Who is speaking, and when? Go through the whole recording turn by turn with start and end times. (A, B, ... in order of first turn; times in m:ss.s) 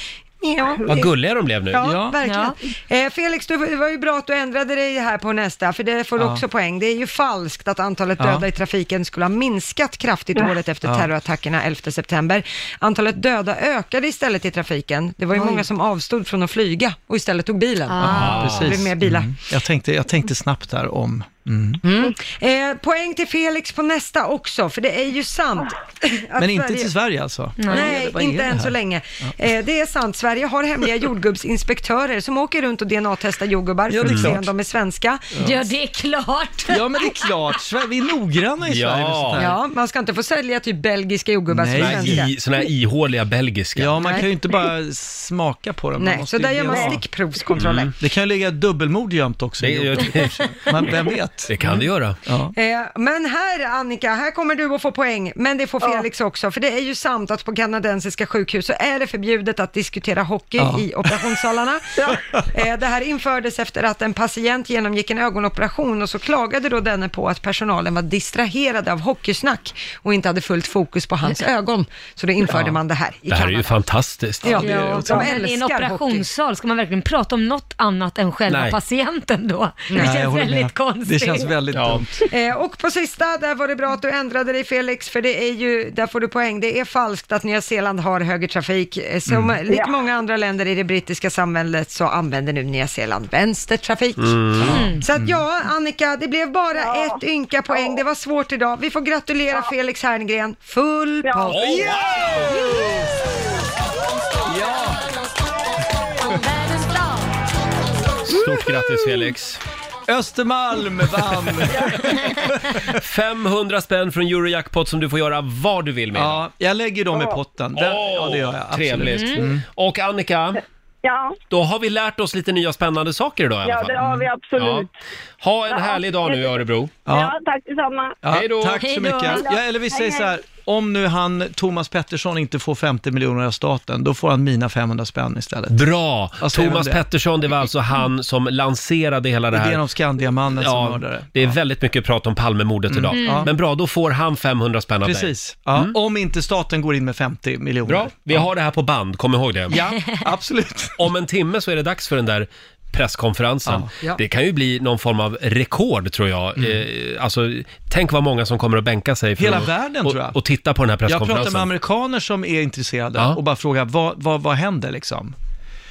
0:00.4-0:01.1 A
0:00.9-0:01.8 B
0:01.7-0:19.4 A
0:01.8-0:02.2 C
0:02.2-0:02.6 D
0:06.2-0:06.4 C
0:08.2-0:08.5 C
0:15.4-0:15.6 D
0:17.9-0:18.4 D
0:18.0-0:18.8 B
0:18.0-0:21.8 C
0:21.8-0:26.9 A
0:26.4-0:28.8 C
0:27.6-0:28.0 D
0:27.7-0:35.4 A
0:33.9-0:34.5 C
0:34.0-0:34.4 B
0:35.4-0:37.2 D
0:36.7-0:39.6 C
0:38.7-0:39.4 B
0:39.4-0:42.3 A
0:41.5-0:42.3 C
0:41.7-0:44.1 B
0:43.8-0:47.0 C
0:44.0-0:44.3 A
0:46.0-0:47.9 A
0:47.6-0:47.9 B
0:48.0-0:52.5 C
0:49.6-0:50.6 B
0:51.5-0:52.2 B
0:52.6-1:13.7 A
1:00.6-1:00.9 C
1:13.3-1:15.0 B
1:14.4-1:16.3 A
1:14.5-1:21.5 D
1:14.5-1:15.2 C
1:18.5-1:18.8 B
1:19.9-1:20.2 A
1:20.0-1:22.3 C
1:21.7-1:22.0 B
1:22.3-1:42.2 A
1:29.7-1:30.0 E
1:34.2-1:34.9 B
1:34.7-1:35.0 D
1:36.8-1:37.2 E
1:41.2-1:41.9 E
1:41.5-1:42.6 B
1:44.5-1:45.0 C
1:46.2-1:47.3 D
1:48.3-1:49.6 B
1:50.1-1:53.0 C
1:52.9-1:56.4 B
1:56.1-1:59.6 C
1:57.8-2:00.6 B
1:59.1-1:59.5 D
2:01.0-2:01.4 E
2:01.5-2:04.9 B
2:03.6-2:04.9 E
2:05.4-2:07.0 B
2:05.7-2:06.6 E
2:07.1-2:07.4 C
2:07.1-2:08.2 E
2:08.2-2:15.8 C
2:08.3-2:08.9 B
2:08.8-2:09.5 D
2:09.4-2:10.3 E
2:15.7-2:19.8 B
2:16.4-2:17.0 C
2:19.5-2:21.6 C
2:20.5-2:26.0 B
2:22.9-2:23.5 C
2:23.1-2:23.5 D
2:25.0-2:28.5 C
2:27.9-2:29.8 B
2:29.7-2:31.1 C
2:31.0-2:41.7 B
2:36.6-2:36.8 C
2:39.4-2:40.4 C
2:41.1-2:45.4 C